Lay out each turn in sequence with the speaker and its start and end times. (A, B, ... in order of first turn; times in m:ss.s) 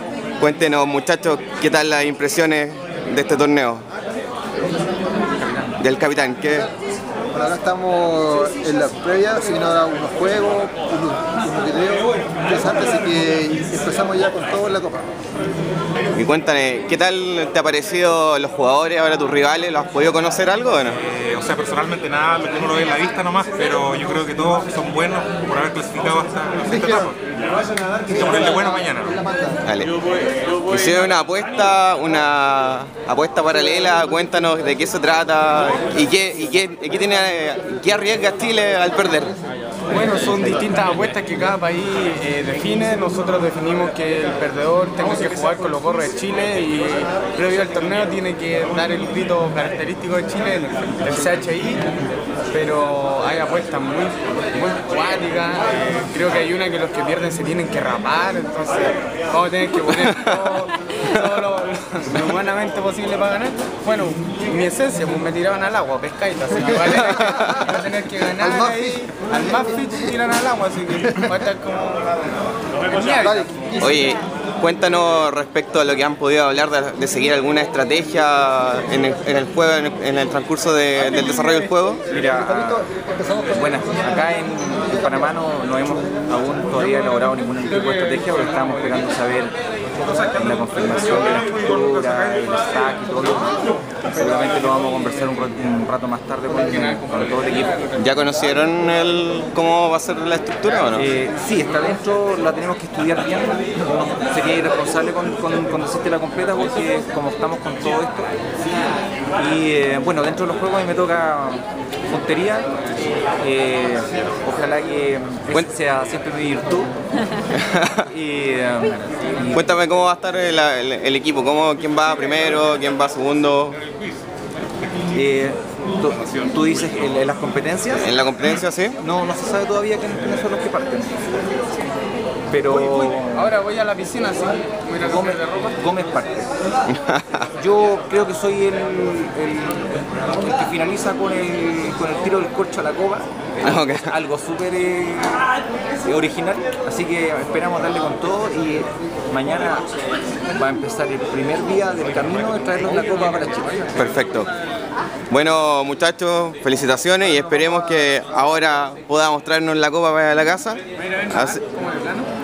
0:00.4-0:03.8 A
0:05.8-0:06.7 A
0:07.3-0:15.1 B
0:16.2-0:21.0 A
0:21.0-0:27.2 C
0:28.1-0:29.2 C
0:28.2-0:29.6 B
0:29.6-0:29.9 A
0:30.7-0:39.4 A
0:39.9-0:51.9 D
0:40.0-0:40.5 E
0:52.5-1:13.5 D
1:00.0-1:01.2 A
1:06.9-1:07.8 A
1:08.4-1:09.9 B
1:13.2-1:14.2 B
1:13.8-1:22.0 A
1:22.1-1:22.9 E
1:22.2-1:23.6 B
1:23.5-1:29.5 E
1:30.1-1:33.6 E
1:34.1-1:37.8 E
1:38.0-1:41.1 A
1:40.9-1:48.3 E
1:49.4-1:52.7 E
1:53.4-1:56.9 E
1:57.6-1:57.9 A
1:58.1-1:59.7 E
1:59.5-2:03.8 A
2:05.1-2:08.1 E
2:08.0-2:09.0 A
2:09.0-2:11.1 E
2:12.5-2:13.5 E
2:12.7-2:15.8 D
2:15.0-2:16.5 E
2:16.9-2:17.5 A
2:17.6-2:25.5 E
2:23.6-2:24.1 A
2:26.0-2:29.9 E
2:30.6-2:33.9 E
2:34.0-2:34.5 A
2:35.3-2:41.6 A
2:41.0-2:42.3 D